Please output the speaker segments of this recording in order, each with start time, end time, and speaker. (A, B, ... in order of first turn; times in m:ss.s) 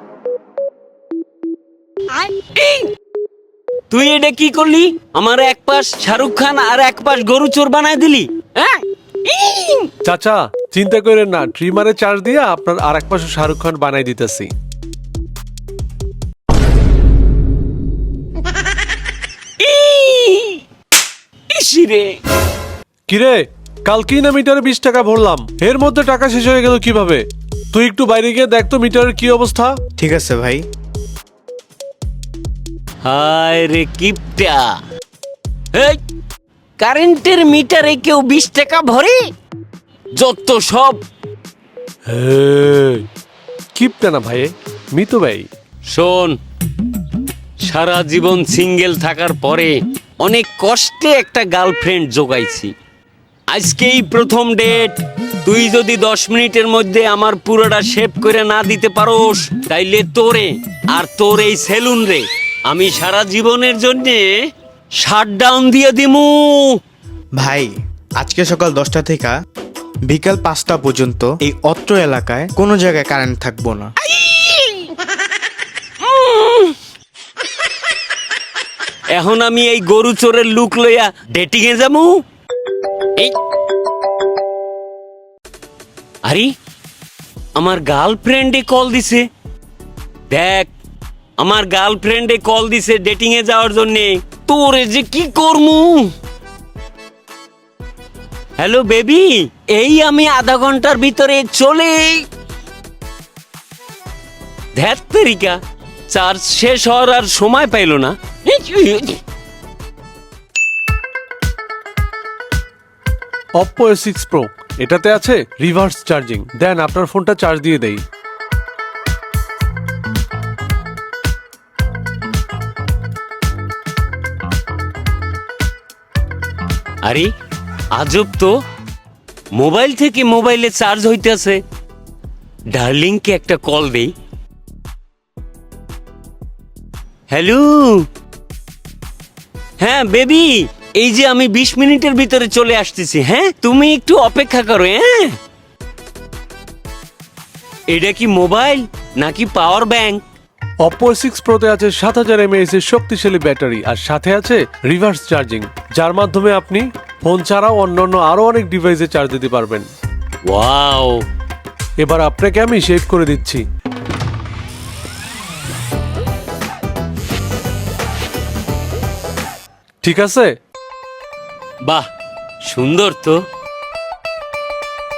0:02.2-0:02.9 A
0:03.9-0:09.9 A
0:10.0-0:14.5 B
0:19.6-0:20.6 A
0:21.5-0:22.2 A
0:23.1-0:29.8 B
0:30.0-0:30.6 C
0:33.0-0:34.8 A
0:35.7-0:36.0 A
0:36.8-0:39.3 A
0:40.1-0:41.0 A
0:42.1-0:43.1 B
0:43.8-0:45.5 B
0:45.9-0:46.4 A
0:47.6-0:52.7 A
0:53.5-1:04.4 A
1:05.0-1:06.8 A
1:07.4-1:09.4 C
1:10.1-1:13.9 C
1:14.0-1:14.9 A
1:16.0-1:16.8 A
1:19.1-1:22.2 A
1:26.2-1:26.5 A
1:27.6-1:29.3 A
1:30.3-1:30.7 A
1:31.4-1:36.1 A
1:38.6-1:42.3 A
1:44.8-1:49.2 A
1:53.6-1:58.0 B
2:07.0-2:07.3 A
2:07.9-2:08.6 A
2:09.5-2:11.6 A
2:12.7-2:14.1 A
2:17.3-2:18.1 A
2:19.8-2:25.4 A
2:27.9-2:30.2 A
2:30.8-2:39.9 B
2:40.4-2:41.2 A
2:42.0-2:43.6 B
2:50.0-2:50.6 B
2:52.6-2:53.4 A